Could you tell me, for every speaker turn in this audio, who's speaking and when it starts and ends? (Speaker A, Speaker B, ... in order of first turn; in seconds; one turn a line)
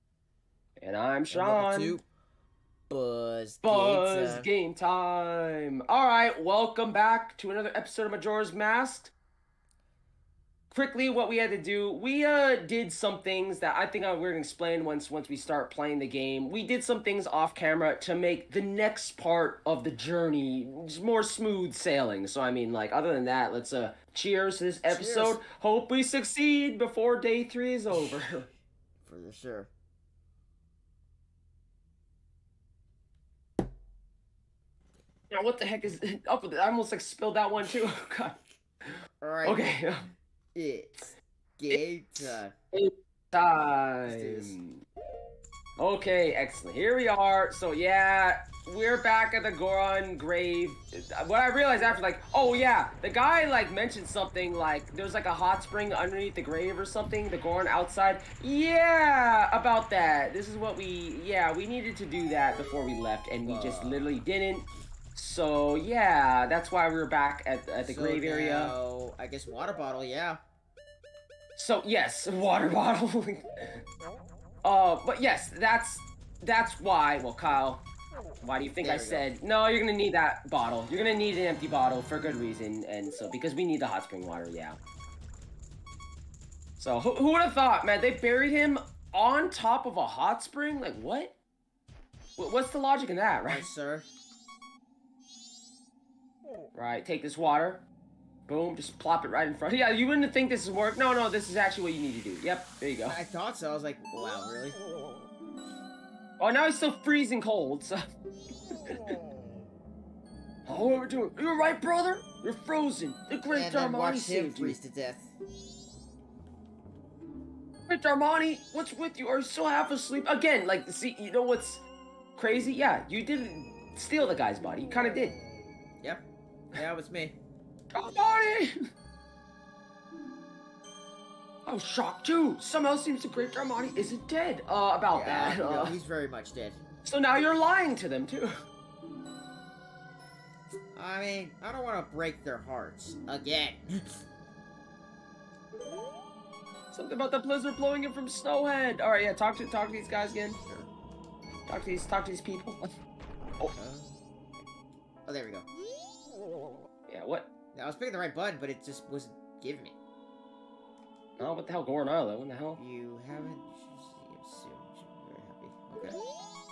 Speaker A: 0.8-2.0
Speaker B: 1.3-2.0
Speaker B: 2.9-4.5
Speaker A: 3.6-9.1
Speaker A: 10.7-28.5
Speaker B: 24.8-25.4
Speaker B: 27.9-28.2
Speaker B: 29.0-29.7
Speaker A: 35.3-38.4
Speaker B: 39.2-39.8
Speaker A: 39.4-40.1
Speaker B: 40.5-42.5
Speaker A: 42.7-44.8
Speaker B: 44.0-44.6
Speaker A: 45.8-68.8
Speaker B: 63.4-64.2
Speaker B: 67.8-70.4
Speaker A: 71.5-73.5
Speaker A: 74.6-77.8
Speaker A: 78.4-84.8
Speaker B: 78.8-79.3
Speaker A: 86.8-91.4
Speaker A: 92.4-93.7
Speaker B: 93.4-94.1
Speaker A: 96.7-97.8
Speaker A: 98.5-103.2
Speaker B: 103.0-104.8
Speaker A: 106.4-108.0
Speaker A: 110.7-114.8
Speaker B: 113.5-115.3
Speaker A: 117.9-121.8
Speaker A: 122.4-125.4
Speaker B: 126.0-127.3
Speaker A: 127.9-128.7
Speaker A: 131.7-136.0
Speaker B: 135.1-136.8
Speaker A: 137.0-138.5
Speaker B: 140.9-144.2
Speaker A: 146.9-150.6
Speaker B: 150.6-150.9
Speaker A: 151.7-152.8
Speaker B: 153.8-154.2
Speaker B: 155.2-155.7
Speaker A: 157.1-157.5
Speaker B: 157.7-159.9
Speaker A: 161.4-162.8
Speaker B: 162.8-166.2